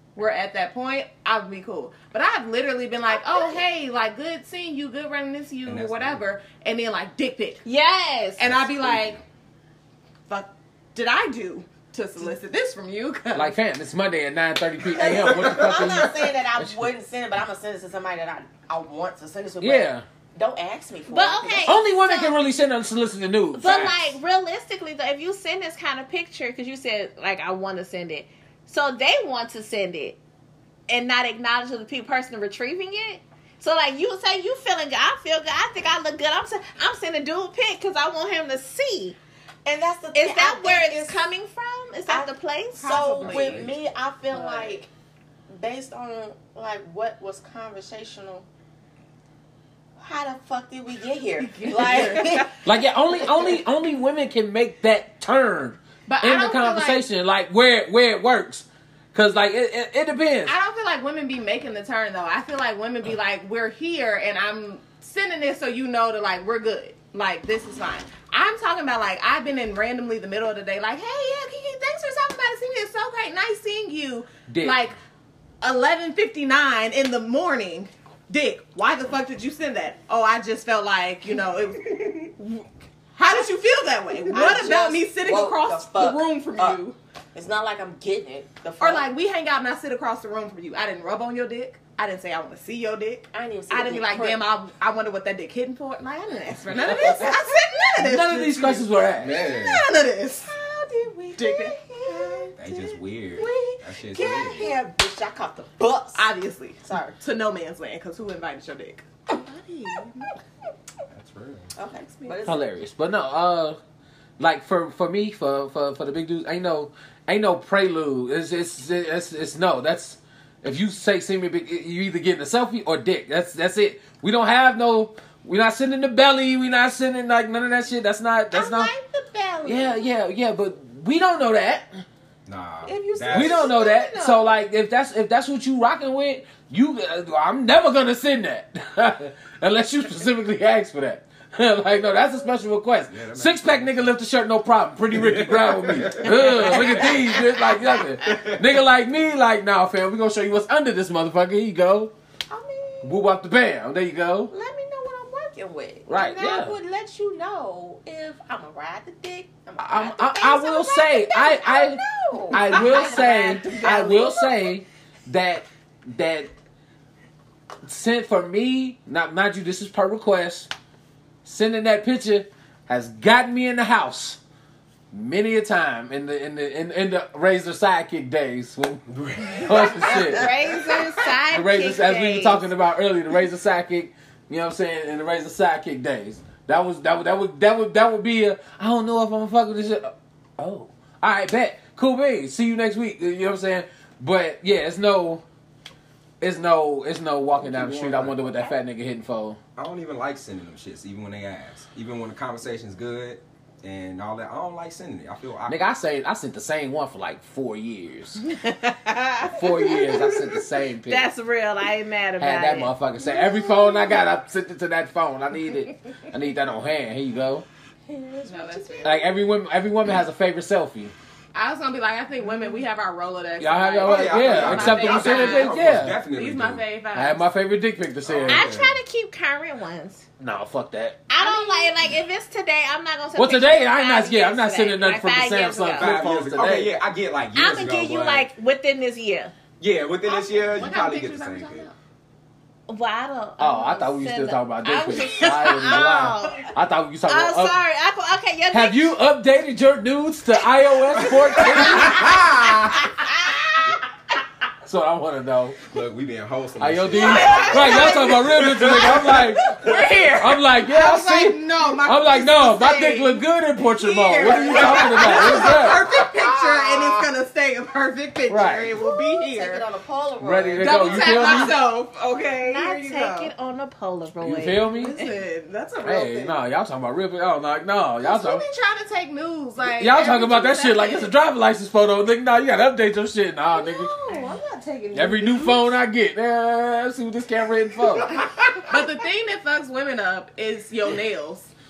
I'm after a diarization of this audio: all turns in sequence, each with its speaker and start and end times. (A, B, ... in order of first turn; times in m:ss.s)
0:00.2-0:07.6 A
0:03.1-0:03.6 B
0:05.6-0:06.3 C
0:07.6-0:08.4 D
0:08.4-0:09.2 A
0:08.4-0:09.2 C
0:10.3-0:13.5 A
0:13.3-0:16.8 E
0:14.8-0:21.8 B
0:19.6-0:20.0 E
0:21.1-0:22.4 D
0:21.6-0:24.2 E
0:23.5-0:30.2 D
0:30.9-0:39.2 D
0:39.6-0:41.2 B
0:40.1-0:43.0 D
0:42.8-0:43.7 A
0:42.8-0:44.9 B
0:43.0-0:43.8 C
0:44.3-0:44.8 A
0:45.5-0:48.5 B
0:50.0-0:52.6 B
0:51.4-0:52.5 A
0:52.6-1:00.6 E
0:53.2-0:53.5 B
0:56.1-0:57.0 A
1:00.4-1:15.0 A
1:14.5-1:14.8 E
1:15.6-1:22.6 A
1:23.2-1:27.0 A
1:24.3-1:26.8 B
1:27.3-1:29.1 B
1:28.8-1:38.9 A
1:33.3-1:34.4 B
1:36.8-1:37.3 E
1:36.9-1:37.6 B
1:38.0-1:39.4 E
1:39.2-1:39.8 C
1:39.4-1:40.5 A
1:40.4-1:46.3 B
1:41.4-1:42.5 A
1:42.6-1:44.8 C
1:46.1-1:50.3 A
1:46.8-1:47.2 B
1:51.1-1:51.7 C
1:51.8-1:52.7 B
1:52.4-1:53.8 E
1:54.4-2:08.9 E
2:08.5-2:10.1 B
2:09.6-2:12.0 E
2:12.4-2:13.7 C
2:12.8-2:14.6 B
2:13.3-2:32.1 E
2:23.1-2:24.0 C
2:25.1-2:27.4 C
2:26.5-2:28.0 B
2:28.2-2:28.6 C
2:32.5-2:33.2 B
2:33.0-2:34.5 E
2:34.5-2:44.8 B
2:36.1-2:36.8 E
2:39.8-2:46.5 E
2:42.6-2:43.5 A
2:47.8-2:50.7 E
2:51.4-2:54.4 E
2:55.1-3:00.5 E
2:59.1-3:00.0 C
2:59.8-3:02.7 D
3:01.5-3:15.4 E
3:16.4-3:19.6 E
3:17.6-3:18.5 C
3:19.8-3:25.9 C
3:25.6-3:28.4 E
3:28.5-3:30.3 D
3:29.5-3:31.3 E
3:31.1-3:32.9 D
3:32.4-3:37.6 E
3:33.3-3:34.1 B
3:38.1-3:39.4 B
3:38.4-3:39.2 A
3:39.0-3:41.1 E
3:41.5-3:47.5 A
3:43.6-3:46.2 E
3:44.0-3:46.8 C
3:47.1-3:48.6 E
3:48.2-3:49.0 C
3:48.5-3:50.2 D
3:50.4-3:51.2 E
3:51.3-3:56.2 D
3:51.4-3:51.9 A
3:53.3-3:57.0 E
3:56.0-3:58.5 C
3:57.5-3:59.5 D
3:59.8-4:01.9 C
4:00.2-4:02.0 A
4:02.9-4:06.7 D
4:03.6-4:07.8 E
4:07.3-4:09.2 D
4:08.7-4:13.0 E
4:11.2-4:12.4 C
4:14.8-4:15.8 E
4:15.9-4:20.3 C
4:16.8-4:26.1 E
4:17.2-4:18.2 A
4:17.4-4:18.2 B
4:19.8-4:29.8 A
4:24.7-4:26.8 C
4:28.5-4:28.9 E
4:29.0-4:31.7 B
4:30.4-4:31.8 E
4:30.8-4:33.5 A
4:32.6-4:35.3 D
4:34.4-4:35.1 E
4:35.0-4:36.6 A
4:36.0-4:38.6 E
4:38.2-4:41.3 A
4:40.0-4:44.1 E
4:43.7-4:45.8 B
4:44.3-4:44.6 A
4:45.1-4:48.9 E
4:48.9-4:51.7 A